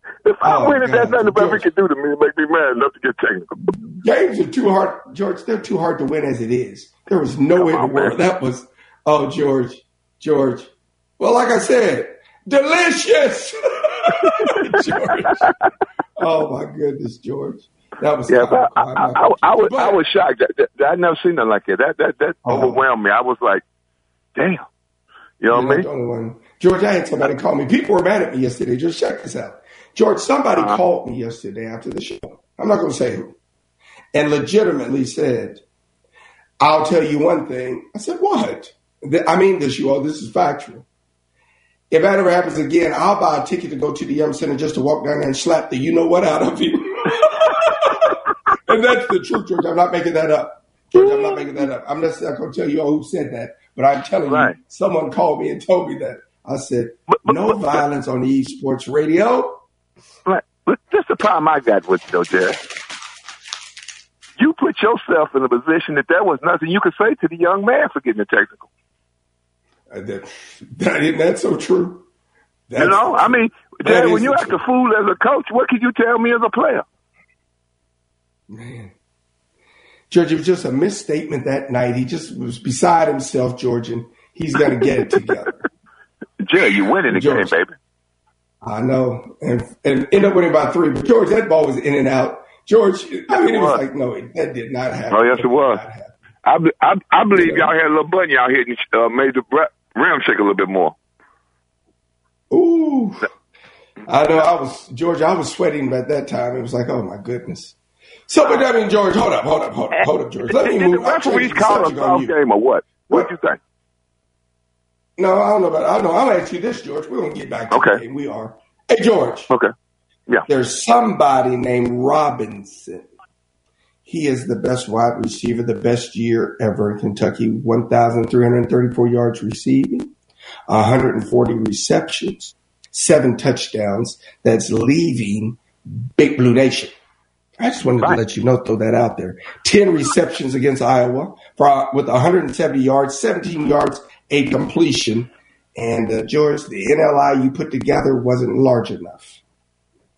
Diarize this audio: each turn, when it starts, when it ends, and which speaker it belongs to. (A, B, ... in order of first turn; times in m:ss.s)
0:00.2-0:03.7 A
0:00.4-0:01.6 B
0:04.0-0:10.7 B
0:07.6-0:08.1 A
0:11.2-0:15.5 B
0:16.2-0:20.0 B
0:18.3-0:23.6 A
0:22.4-0:22.8 B
0:24.4-0:24.6 A
0:25.4-0:25.8 A
0:25.5-0:33.3 B
0:34.1-0:35.6 B
0:36.6-0:40.8 B
0:41.9-0:48.1 B
0:48.6-0:59.6 B
0:51.0-0:51.6 A
0:54.3-0:54.5 A
0:57.1-0:57.8 A
1:00.2-1:02.6 A
1:04.4-1:08.7 A
1:09.9-1:12.0 B
1:12.7-1:14.6 B
1:12.8-1:16.8 A
1:18.5-1:18.9 B
1:20.1-1:25.6 B
1:26.4-1:27.7 A
1:27.1-1:27.5 B
1:28.6-1:36.1 B
1:33.3-1:33.8 A
1:35.1-1:35.8 A
1:36.4-1:40.9 A
1:37.3-1:37.7 B
1:42.5-1:43.2 B
1:44.1-1:47.8 B
1:48.3-1:52.3 B
1:50.0-1:53.6 A
1:55.2-1:59.5 B
1:57.7-1:58.0 A
2:00.4-2:03.1 B
2:04.0-2:10.1 B
2:10.7-2:16.9 B
2:17.6-2:29.4 B